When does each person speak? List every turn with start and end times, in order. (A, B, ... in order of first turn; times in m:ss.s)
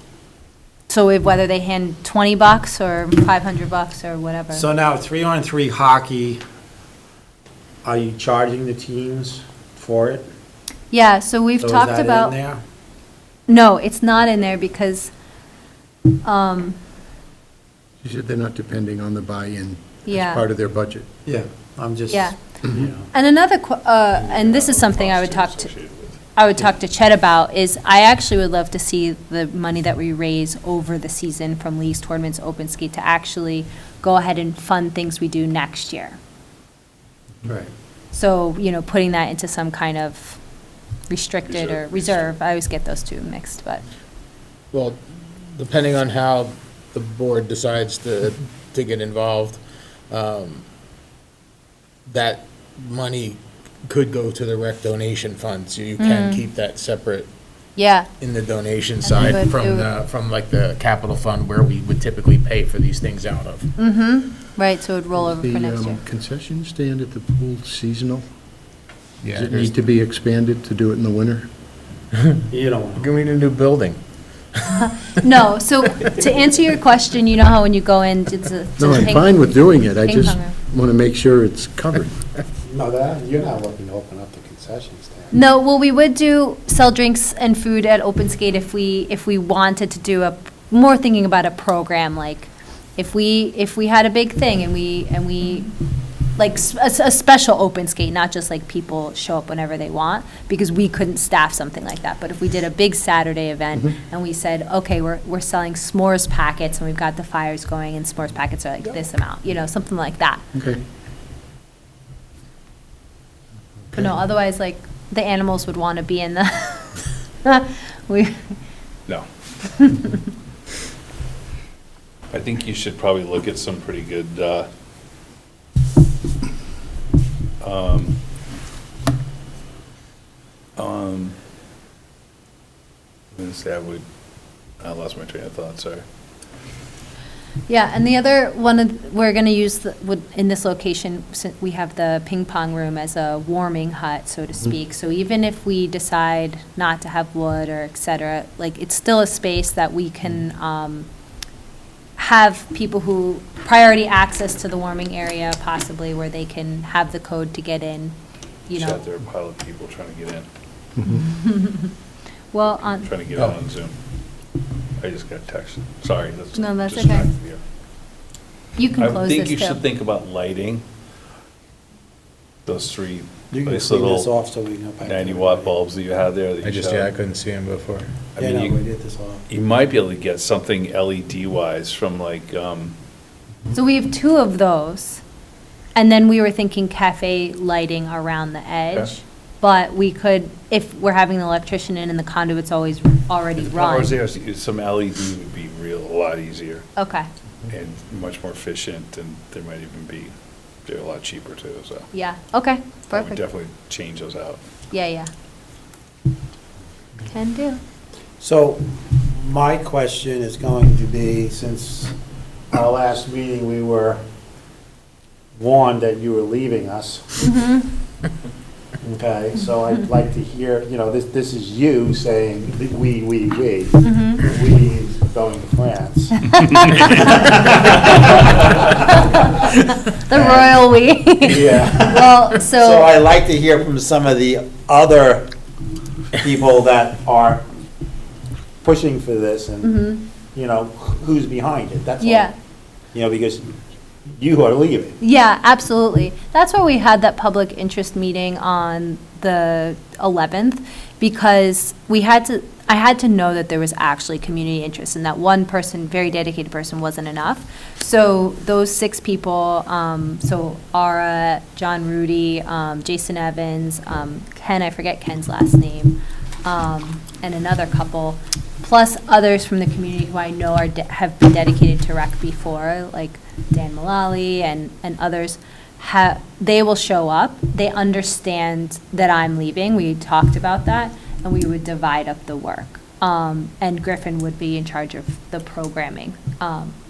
0:00.9-0:04.6 A
0:04.5-0:06.4 B
0:07.8-0:10.3 B
0:10.9-0:12.3 A
0:11.6-0:12.6 B
0:13.5-0:15.1 A
0:16.2-0:16.8 A
0:18.0-0:21.1 C
0:20.0-0:20.4 A
0:21.2-0:23.1 B
0:22.1-0:22.4 A
0:23.1-0:25.7 A
0:24.1-0:26.2 D
0:26.3-0:36.2 A
0:37.4-0:37.7 B
0:38.1-0:40.4 A
0:41.1-0:43.8 A
0:41.5-0:42.3 D
0:44.7-0:45.0 E
0:45.5-0:50.6 E
0:52.0-0:57.3 E
0:56.0-0:56.4 A
0:57.8-0:58.1 A
0:58.2-1:03.7 E
0:59.0-0:59.9 A
1:03.8-1:06.0 A
1:05.2-1:08.3 C
1:09.2-1:09.7 E
1:09.3-1:11.5 C
1:12.5-1:13.1 B
1:13.0-1:14.0 E
1:14.8-1:20.6 A
1:18.8-1:22.2 C
1:22.6-1:25.3 B
1:25.3-1:35.7 A
1:36.4-1:50.4 A
1:50.5-1:50.8 C
1:53.9-1:58.6 A
1:59.7-2:00.2 A
2:02.3-2:04.7 D
2:07.6-2:08.2 D
2:10.8-2:11.3 D
2:13.3-2:14.0 D
2:14.8-2:16.0 D
2:17.7-2:31.1 A
2:32.2-2:38.1 A
2:38.7-2:39.0 A
2:38.7-2:40.5 D
2:41.0-2:41.2 C
2:41.1-2:41.9 A
2:42.5-2:43.1 A
2:42.9-2:44.0 D
2:45.0-2:47.6 D
2:46.5-2:47.3 A
2:48.8-2:49.8 A
2:49.0-2:50.8 D
2:52.6-2:54.3 D
2:53.5-2:55.7 B
2:55.0-2:57.1 D
2:56.6-2:58.1 E
2:58.4-2:58.8 D
2:58.4-2:59.4 B
2:59.5-3:02.9 D
3:03.7-3:05.2 A
3:05.9-3:14.1 A
3:13.6-3:16.9 D
3:17.0-3:17.3 A
3:17.7-3:20.3 D
3:20.8-3:22.1 D
3:22.1-3:23.4 A
3:23.1-3:24.6 D
3:24.9-3:25.3 A
3:27.2-3:27.8 A
3:28.4-3:32.1 B
3:32.7-3:34.2 B
3:35.5-3:37.2 B
3:37.4-3:37.9 A
3:39.0-3:46.4 B
3:44.0-3:44.4 A
3:46.5-3:47.5 A
3:47.1-3:47.9 B
3:48.9-3:53.2 A
3:50.3-3:50.7 B
3:51.4-3:55.5 B
3:56.4-3:57.7 B
3:58.8-4:02.5 B
3:59.8-4:00.2 A
4:02.2-4:02.5 A
4:03.1-4:03.7 B
4:04.3-4:05.2 B
4:05.2-4:46.9 A